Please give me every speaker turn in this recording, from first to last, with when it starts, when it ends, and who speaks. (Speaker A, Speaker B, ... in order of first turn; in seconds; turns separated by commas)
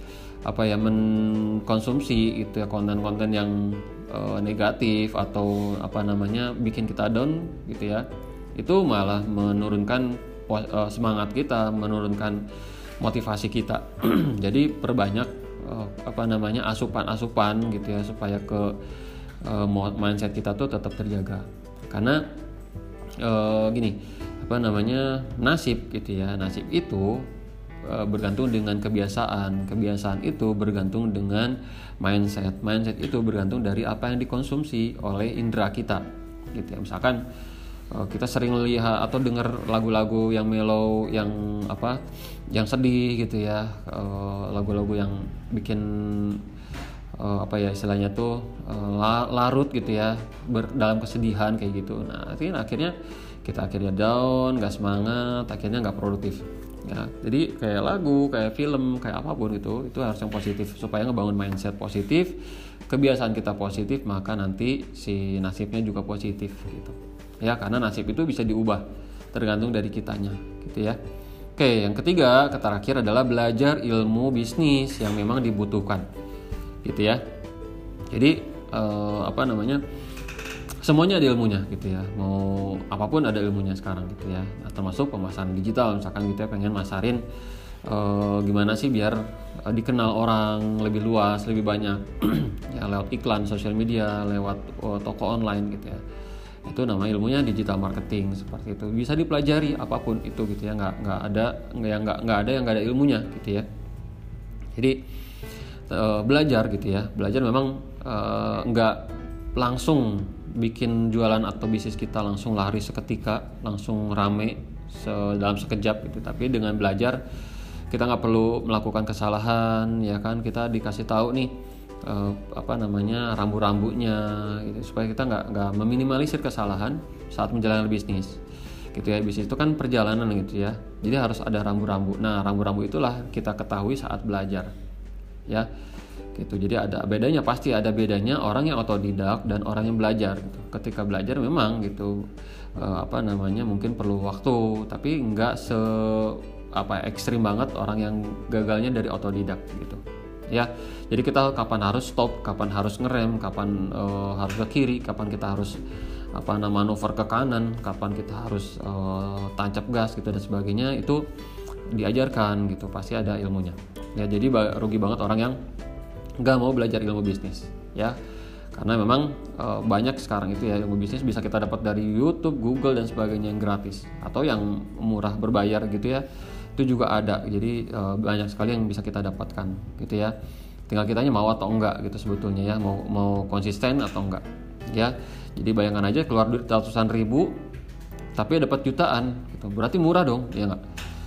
Speaker A: 0.5-8.1, Speaker A: 8.6-12.5, Speaker A: 13.0-18.8, Speaker A: 19.4-22.3, Speaker A: 23.2-27.3, Speaker A: 27.9-37.2, Speaker A: 37.9-46.4, Speaker A: 47.2-71.0, Speaker A: 71.6-76.1, Speaker A: 76.8-77.2, Speaker A: 78.1-79.8, Speaker A: 80.8-87.2, Speaker A: 87.8-96.0, Speaker A: 96.7-103.7, Speaker A: 104.8-105.0, Speaker A: 105.9-117.2, Speaker A: 117.9-121.5, Speaker A: 122.0-128.4, Speaker A: 128.9-134.7, Speaker A: 136.3-142.2, Speaker A: 142.8-155.8, Speaker A: 156.3-161.2, Speaker A: 161.9-165.6, Speaker A: 166.4-168.2, Speaker A: 168.7-176.2, Speaker A: 176.8-180.3, Speaker A: 180.9-187.6, Speaker A: 188.3-190.8